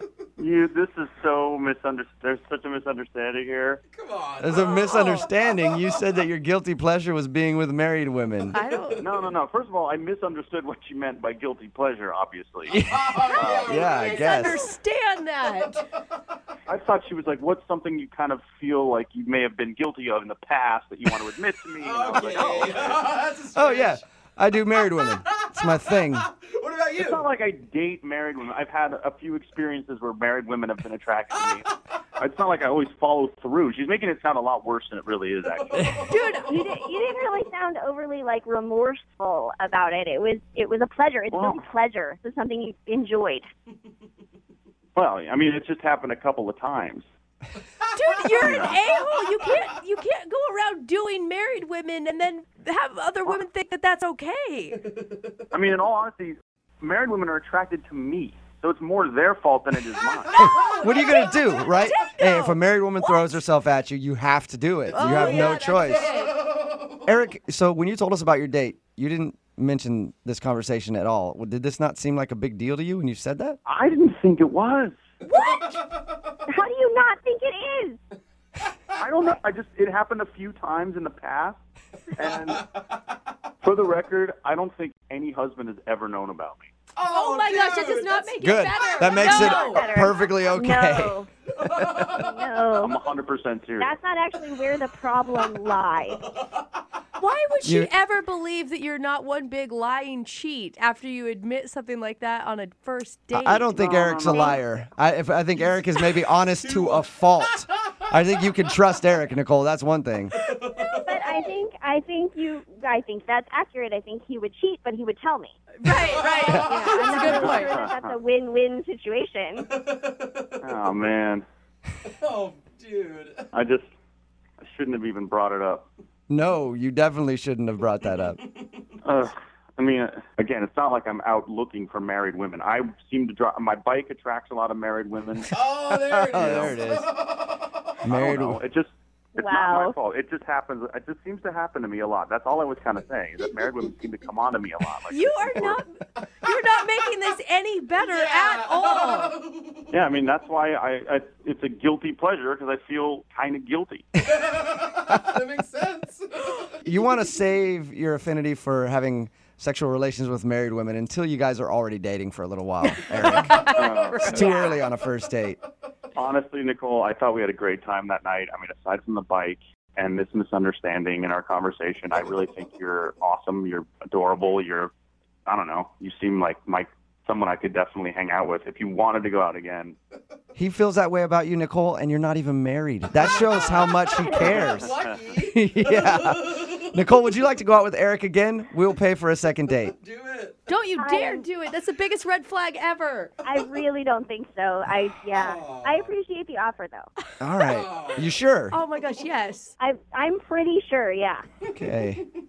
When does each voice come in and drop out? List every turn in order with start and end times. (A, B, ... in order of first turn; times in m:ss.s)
0:00.4-0:03.8 A
0:03.9-0:06.0 B
0:04.4-0:08.6 C
0:04.9-0:05.3 D
0:08.5-0:09.0 D
0:08.6-0:09.1 B
0:09.0-0:13.8 A
0:12.7-0:14.6 C
0:12.7-0:14.7 B
0:13.2-0:15.8 D
0:16.7-0:23.0 A
0:21.8-0:24.0 B
0:23.5-0:26.3 C
0:24.9-0:27.2 B
0:27.0-0:31.6 A
0:32.2-0:36.0 A
0:35.6-0:36.8 B
0:36.1-0:36.5 D
0:36.4-0:43.5 E
0:41.3-0:41.6 A
0:45.0-0:47.0 A
0:47.9-0:54.8 D
0:48.2-0:48.5 B
0:48.4-0:48.8 A
0:55.0-0:55.3 B
0:55.5-1:00.3 A
1:00.3-1:03.4 D
1:00.4-1:06.1 C
1:04.9-1:06.4 D
1:05.0-1:05.5 B
1:06.2-1:07.0 B
1:07.0-1:13.6 C
1:13.6-1:15.0 A
1:15.2-1:15.8 D
1:16.5-1:18.0 E
1:19.0-1:21.6 A
1:22.2-1:22.6 A
1:22.2-1:22.8 B
1:23.6-1:26.7 A
1:26.9-1:28.5 B
1:27.0-1:30.0 D
1:28.4-1:32.1 C
1:29.1-1:31.3 E
1:31.6-1:32.4 B
1:32.0-1:33.0 E
1:32.8-1:34.0 A
1:33.8-1:36.2 E
1:35.3-1:35.6 B
1:36.2-1:36.7 B
1:37.2-1:43.8 D
1:37.6-1:37.9 C
1:43.3-1:50.4 C
1:43.7-1:44.6 A
1:44.2-1:44.6 E
1:46.6-1:48.5 B
1:50.3-1:51.4 B
1:50.8-1:55.6 E
1:55.8-1:57.8 D
1:55.9-1:57.2 B
1:56.5-1:59.6 E
1:57.2-1:58.2 A
1:59.7-2:00.7 B
2:00.6-2:01.4 A
2:02.0-2:03.5 B
2:03.5-2:03.9 A
2:04.6-2:05.8 A
2:06.3-2:08.4 C
2:08.0-2:08.8 B
2:09.0-2:15.6 A
2:15.5-2:17.9 B
2:16.1-2:17.1 C
2:16.4-2:16.7 A
2:18.0-2:18.6 C
2:18.0-2:25.8 A
2:19.4-2:20.0 E
2:25.1-2:25.9 D
2:26.4-2:29.4 D
2:28.0-2:29.9 B
2:29.9-2:34.1 A
2:34.2-2:37.0 B
2:36.8-2:43.6 C
2:42.8-2:44.8 D
2:43.6-2:44.4 A
2:44.2-2:45.6 C
2:44.4-2:44.7 E
2:46.2-2:54.9 A
2:55.4-3:00.0 A
3:00.6-3:04.9 C
3:03.1-3:07.1 B
3:04.4-3:04.8 A
3:05.5-3:09.9 C
3:09.8-3:10.7 B
3:10.7-3:13.3 D
3:11.0-3:11.4 E
3:13.4-3:17.1 E
3:15.3-3:16.1 B
3:17.4-3:18.8 C
3:17.6-3:18.4 B
3:18.7-3:19.7 D
3:19.8-3:21.4 E
3:21.7-3:22.2 C